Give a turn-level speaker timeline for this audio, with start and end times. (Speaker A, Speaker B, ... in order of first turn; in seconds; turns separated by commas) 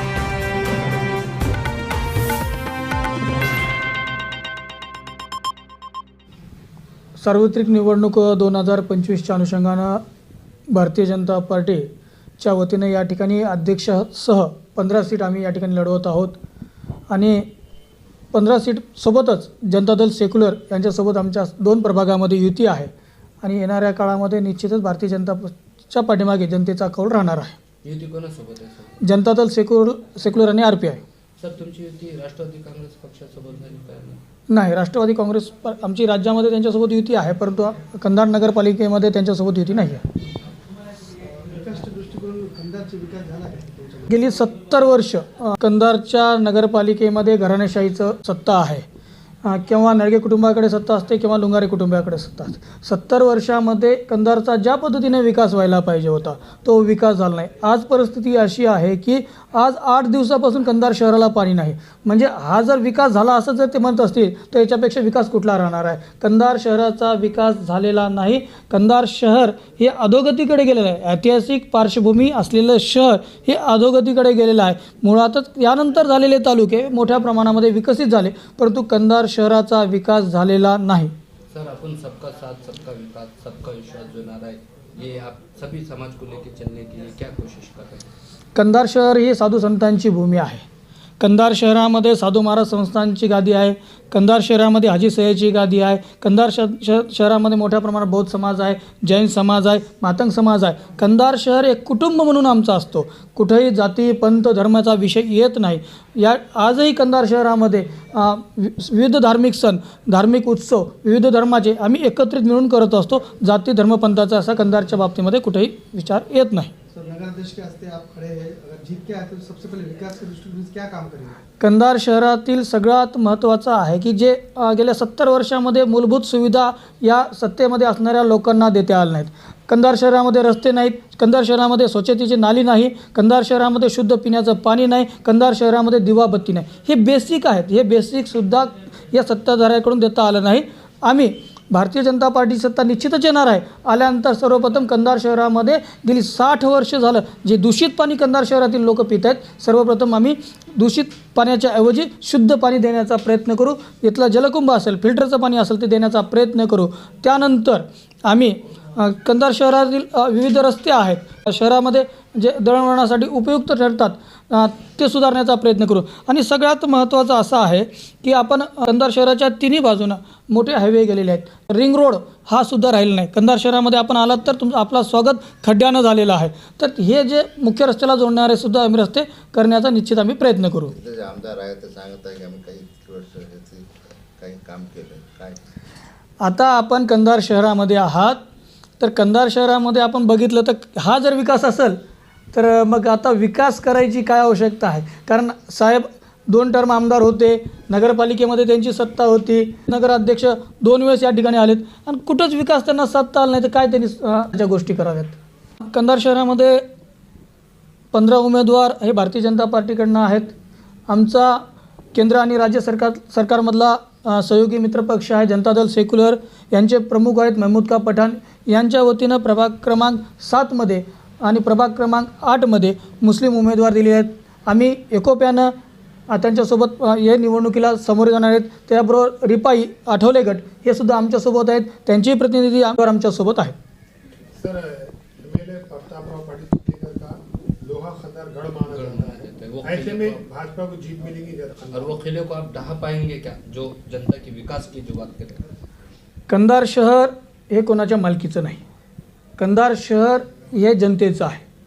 Speaker A: 7.2-10.0, Speaker A: 10.7-16.4, Speaker A: 17.1-17.5, Speaker A: 18.3-22.9, Speaker A: 23.4-27.6, Speaker B: 27.8-29.0, Speaker A: 29.0-31.0, Speaker B: 31.4-34.2, Speaker A: 34.5-40.0, Speaker C: 41.4-44.1, Speaker A: 44.1-48.9, Speaker A: 49.4-81.1, Speaker B: 81.5-88.1, Speaker A: 88.5-90.7, Speaker A: 91.2-116.7, Speaker C: 116.9-121.3, Speaker A: 121.6-180.9, Speaker D: 180.9-185.6, Speaker A: 186.4-188.4, Speaker A: 189.0-192.0, Speaker A: 192.5-206.8, Speaker A: 208.1-210.5, Speaker A: 211.1-211.6, Speaker A: 212.1-225.7, Speaker A: 226.3-233.8, Speaker E: 234.6-242.2, Speaker B: 238.9-240.5, Speaker B: 241.9-245.7, Speaker A: 246.5-248.8, Speaker A: 249.6-251.6